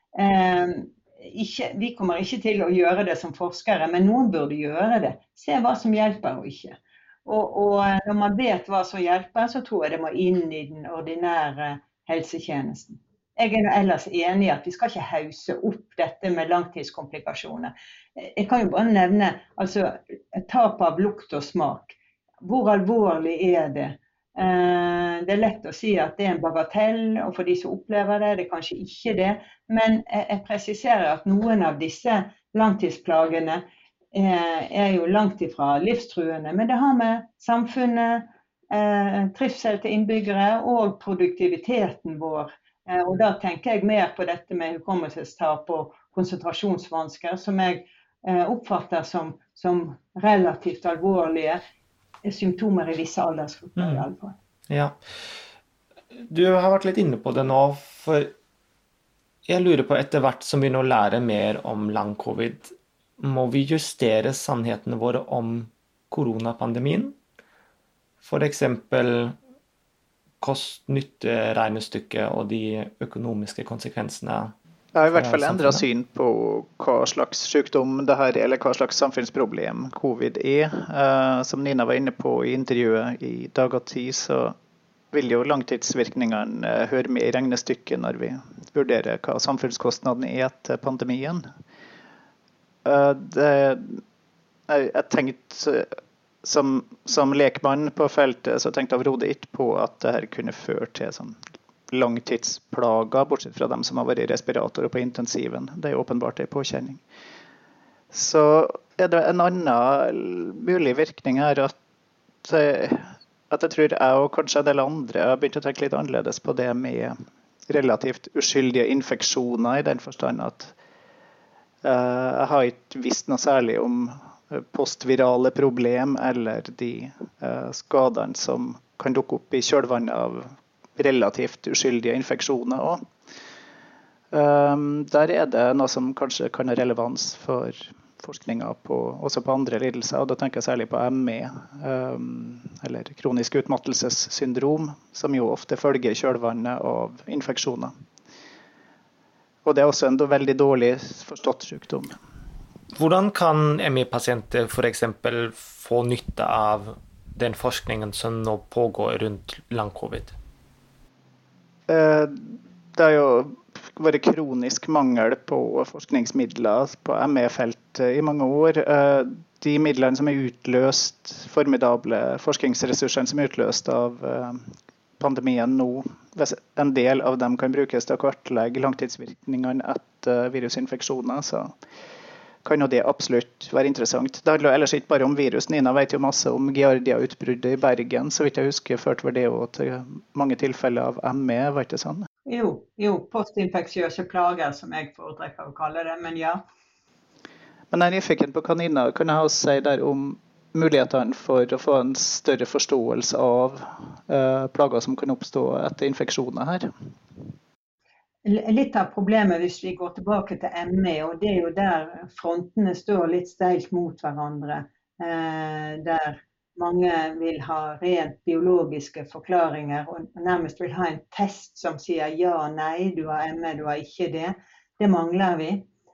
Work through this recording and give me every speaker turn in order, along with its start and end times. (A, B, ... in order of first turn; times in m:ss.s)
0:00.1-0:51.6 A
0:52.2-0:54.4 A
0:53.8-0:54.0 B
0:54.7-0:55.0 B
0:56.1-0:58.3 B
0:59.4-1:07.2 B
1:08.2-1:09.4 B
1:10.4-1:14.5 B
1:14.9-1:24.5 C
1:15.1-1:15.8 B
1:25.1-1:31.4 C
1:32.8-1:34.0 C
1:34.7-1:47.0 C
1:48.1-1:51.8 C
1:52.4-1:57.2 C
1:57.7-2:00.7 C
2:01.8-2:13.0 C
2:14.3-2:27.9 C
2:29.6-2:32.1 C
2:32.9-2:40.3 B
2:41.9-3:01.7 C
3:02.6-3:12.3 C
3:12.5-3:16.6 A
3:17.9-3:26.9 C
3:28.4-3:45.8 A